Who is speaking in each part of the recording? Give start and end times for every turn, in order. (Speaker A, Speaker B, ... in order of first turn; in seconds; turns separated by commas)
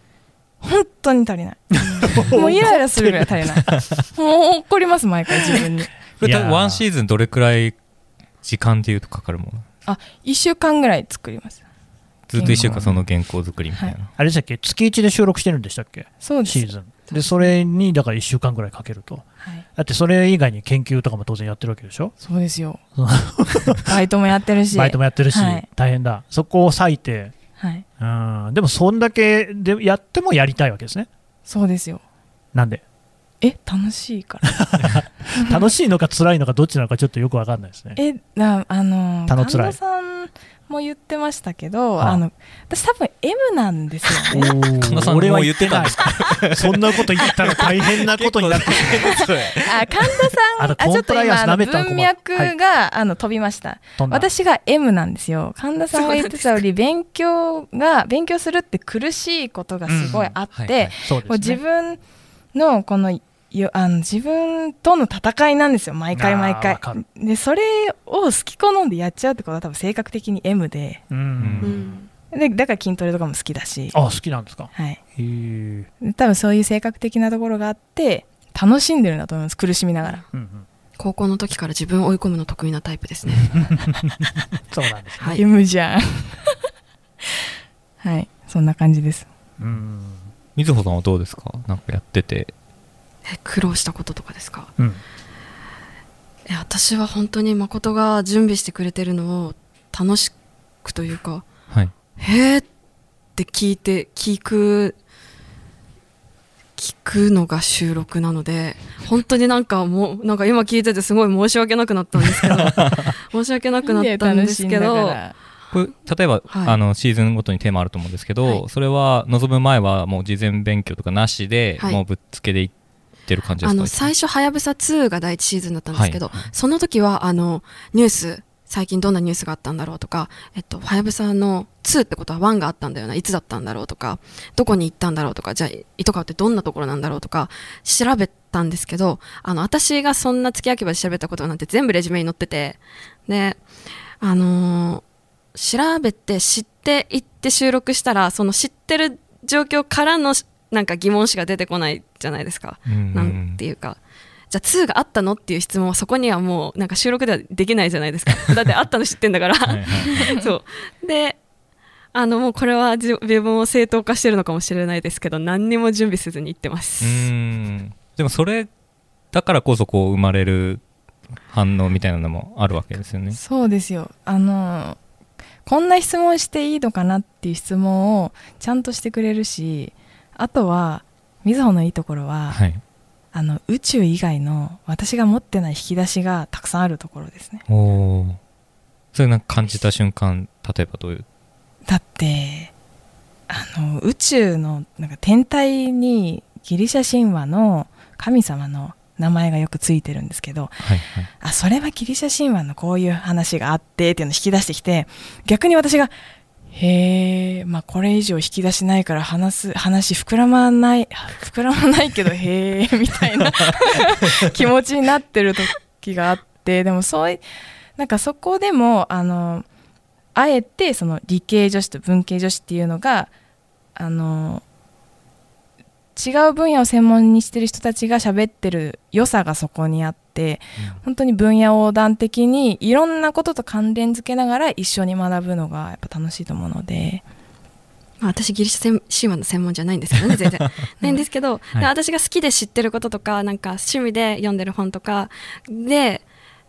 Speaker A: 0.6-5.9, Speaker B: 1.7-3.3, Speaker C: 6.2-7.8, Speaker B: 6.2-6.8, Speaker C: 8.4-9.6, Speaker A: 9.8-11.6, Speaker C: 12.3-14.1, Speaker A: 12.3-12.8, Speaker B: 12.4-13.0, Speaker B: 14.2-22.1, Speaker A: 16.2-16.7, Speaker A: 22.2-22.8, Speaker B: 22.9-23.9, Speaker A: 23.8-25.6, Speaker B: 24.7-27.3, Speaker A: 27.6-27.8, Speaker B: 28.0-31.1, Speaker A: 31.5-32.0, Speaker B: 32.5-32.8, Speaker A: 33.4-34.6, Speaker B: 34.5-38.0, Speaker A: 38.0-44.5, Speaker B: 39.3-39.8, Speaker B: 44.3-49.3, Speaker C: 44.8-49.9, Speaker A: 49.6-62.0, Speaker B: 50.6-52.5, Speaker B: 54.0-54.3, Speaker D: 55.9-56.6, Speaker B: 59.9-60.4, Speaker C: 60.5-60.9, Speaker B: 61.0-61.6, Speaker A: 62.5-71.0, Speaker B: 66.1-67.0, Speaker B: 71.1-71.9, Speaker C: 71.4-71.9, Speaker D: 71.6-72.1, Speaker A: 72.3-74.0, Speaker B: 73.9-75.9, Speaker A: 74.7-75.0, Speaker A: 76.0-80.2, Speaker B: 80.3-80.7, Speaker D: 81.0-83.6, Speaker B: 83.5-85.4, Speaker A: 85.3-86.5, Speaker A: 88.0-89.3, Speaker B: 89.6-90.3, Speaker C: 90.5-92.5, Speaker D: 93.2-94.7, Speaker D: 96.5-101.5, Speaker D: 102.2-102.7, Speaker D: 103.3-105.0, Speaker D: 106.8-115.2, Speaker C: 112.2-113.1, Speaker A: 113.8-115.3, Speaker C: 115.7-122.7, Speaker D: 116.5-116.8, Speaker C: 123.2-124.1, Speaker D: 123.6-143.7, Speaker C: 125.9-126.5, Speaker D: 144.2-154.0, Speaker C: 152.8-153.6, Speaker D: 154.5-161.4, Speaker C: 159.7-160.4, Speaker D: 162.1-167.3, Speaker C: 167.0-168.7, Speaker C: 169.3-170.8, Speaker C: 171.5-173.4, Speaker A: 173.3-175.0, Speaker A: 175.6-182.6, Speaker C: 182.5-182.8, Speaker A: 183.3-187.6, Speaker C: 187.7-188.4, Speaker C: 189.1-191.2, Speaker A: 191.8-192.7, Speaker A: 193.5-200.8, Speaker C: 200.8-201.3, Speaker A: 201.4-206.1, Speaker A: 206.7-217.4, Speaker A: 217.9-219.7, Speaker A: 220.3-223.3, Speaker A: 223.9-224.6, Speaker A: 226.2-237.2, Speaker D: 238.2-246.2